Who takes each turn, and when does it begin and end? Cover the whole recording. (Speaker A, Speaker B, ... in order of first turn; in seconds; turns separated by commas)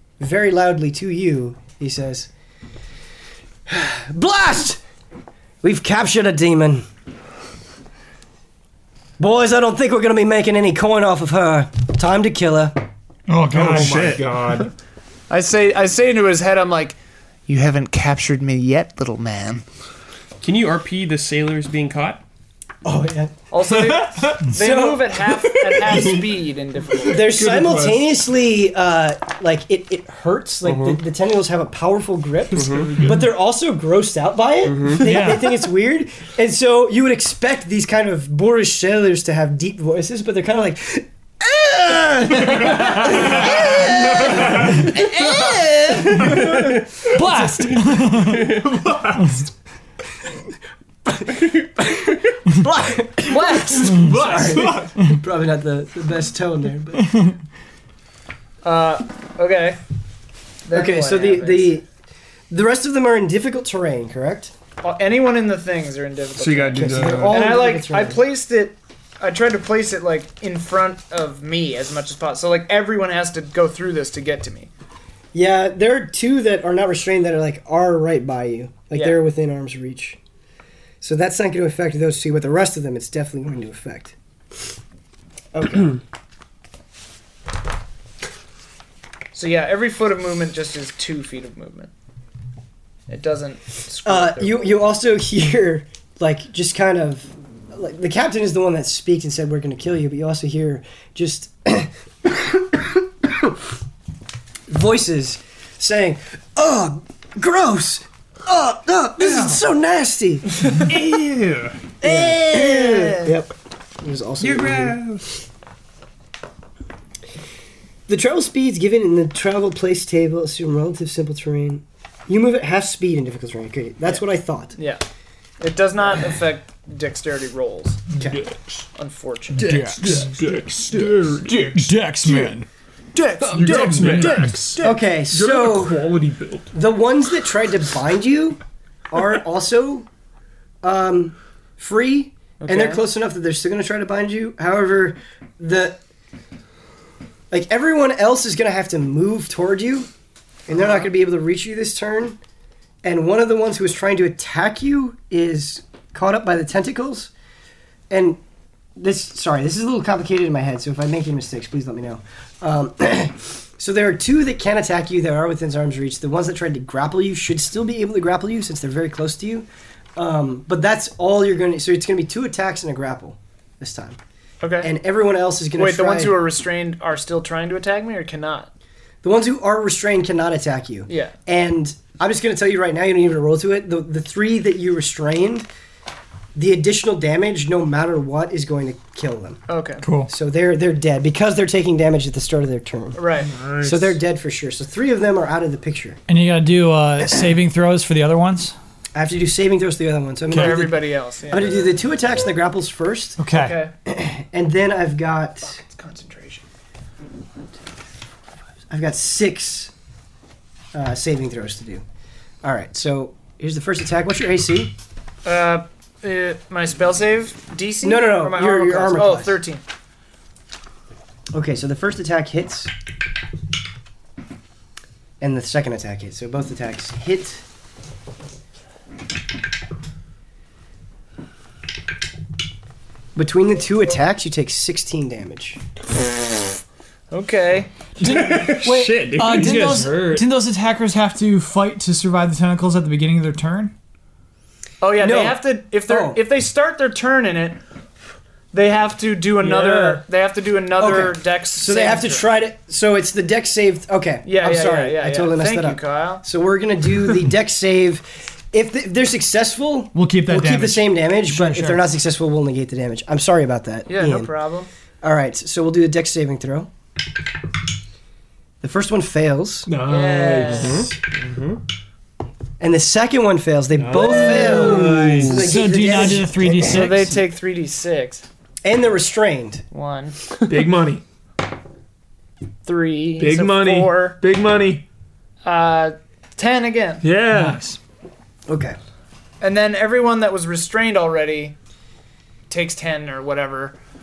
Speaker A: 0.2-2.3, Speaker A: 3.7-4.8, Speaker A: 5.6-6.9, Speaker A: 9.2-12.8, Speaker B: 13.3-14.1, Speaker C: 13.5-14.7, Speaker D: 13.5-14.7, Speaker E: 15.3-19.6, Speaker D: 20.4-22.2, Speaker A: 22.9-23.3, Speaker E: 23.5-27.3, Speaker C: 23.7-24.5, Speaker A: 24.5-25.2, Speaker C: 25.4-26.2, Speaker D: 25.7-26.3, Speaker A: 27.1-46.5, Speaker D: 27.4-28.0, Speaker C: 27.4-27.9, Speaker D: 30.6-31.0, Speaker D: 32.5-33.0, Speaker C: 32.6-33.3, Speaker D: 34.6-35.3, Speaker B: 35.0-35.6, Speaker C: 42.7-44.7, Speaker C: 46.2-46.7, Speaker D: 46.3-47.0, Speaker B: 47.0-48.6, Speaker D: 48.2-48.6, Speaker C: 48.4-49.5, Speaker A: 51.1-57.1, Speaker E: 53.3-54.5, Speaker C: 53.8-55.0, Speaker B: 57.0-57.4, Speaker E: 58.6-59.8, Speaker E: 60.7-61.8, Speaker A: 60.7-61.9, Speaker A: 62.5-64.5, Speaker E: 64.8-74.7, Speaker D: 66.4-67.6, Speaker A: 66.8-68.2, Speaker A: 75.3-80.2, Speaker E: 78.9-79.2, Speaker A: 81.0-84.1, Speaker A: 85.5-86.0, Speaker E: 89.3-91.9, Speaker E: 93.1-94.8, Speaker A: 94.0-103.6, Speaker A: 104.7-111.0, Speaker C: 110.7-111.9, Speaker A: 112.0-115.0, Speaker E: 112.1-113.3, Speaker D: 114.4-115.2, Speaker A: 118.1-124.8, Speaker E: 124.8-125.0, Speaker E: 125.6-128.0, Speaker C: 128.2-128.9, Speaker E: 129.0-129.6, Speaker C: 129.6-131.9, Speaker B: 129.6-130.3, Speaker D: 129.6-131.8, Speaker B: 131.8-132.7, Speaker E: 133.1-135.0, Speaker D: 133.5-134.5, Speaker C: 133.5-136.7, Speaker A: 134.8-136.1, Speaker A: 136.7-138.6, Speaker A: 139.1-140.1, Speaker A: 140.8-146.0, Speaker E: 142.6-143.0, Speaker A: 147.5-150.1, Speaker A: 150.7-152.4, Speaker E: 150.7-151.1, Speaker A: 153.0-157.3, Speaker A: 158.1-158.4, Speaker A: 159.0-174.2, Speaker E: 174.6-174.9, Speaker A: 174.8-176.4, Speaker E: 175.8-178.7, Speaker A: 179.2-185.7, Speaker E: 181.1-181.3, Speaker A: 186.6-189.6, Speaker E: 189.7-190.1, Speaker B: 190.0-190.3, Speaker A: 190.3-193.2, Speaker E: 193.1-193.5, Speaker C: 193.5-194.1, Speaker A: 193.8-196.2, Speaker B: 196.3-198.8, Speaker A: 199.1-203.4, Speaker B: 200.5-200.9, Speaker E: 200.5-201.9, Speaker B: 203.4-203.8, Speaker E: 203.5-203.9, Speaker A: 204.1-205.8, Speaker E: 205.7-206.6, Speaker A: 208.9-209.9, Speaker A: 210.9-212.0, Speaker A: 212.6-214.9, Speaker E: 215.4-219.8, Speaker A: 218.0-219.6, Speaker A: 221.5-222.9, Speaker A: 225.4-227.6, Speaker A: 233.3-235.8, Speaker E: 237.3-237.9, Speaker D: 238.2-240.5, Speaker B: 238.2-243.9, Speaker E: 245.0-247.8, Speaker A: 245.2-246.4, Speaker E: 248.7-252.5, Speaker C: 249.8-250.1, Speaker A: 251.0-264.5, Speaker E: 254.4-256.4, Speaker B: 260.1-262.1, Speaker E: 264.1-264.9, Speaker A: 265.2-266.9, Speaker A: 268.8-269.9, Speaker C: 269.9-271.1, Speaker E: 270.0-271.1, Speaker D: 270.6-271.8, Speaker A: 272.8-277.0, Speaker C: 274.0-275.0, Speaker D: 274.0-275.9, Speaker B: 275.5-277.4, Speaker E: 276.7-278.5, Speaker A: 278.8-279.8, Speaker E: 279.9-280.4, Speaker C: 280.7-281.2, Speaker E: 282.9-284.4, Speaker C: 283.4-285.1, Speaker E: 285.6-287.2, Speaker C: 287.2-287.8, Speaker B: 287.5-288.0, Speaker A: 288.7-289.0, Speaker E: 289.6-291.8, Speaker E: 292.7-294.0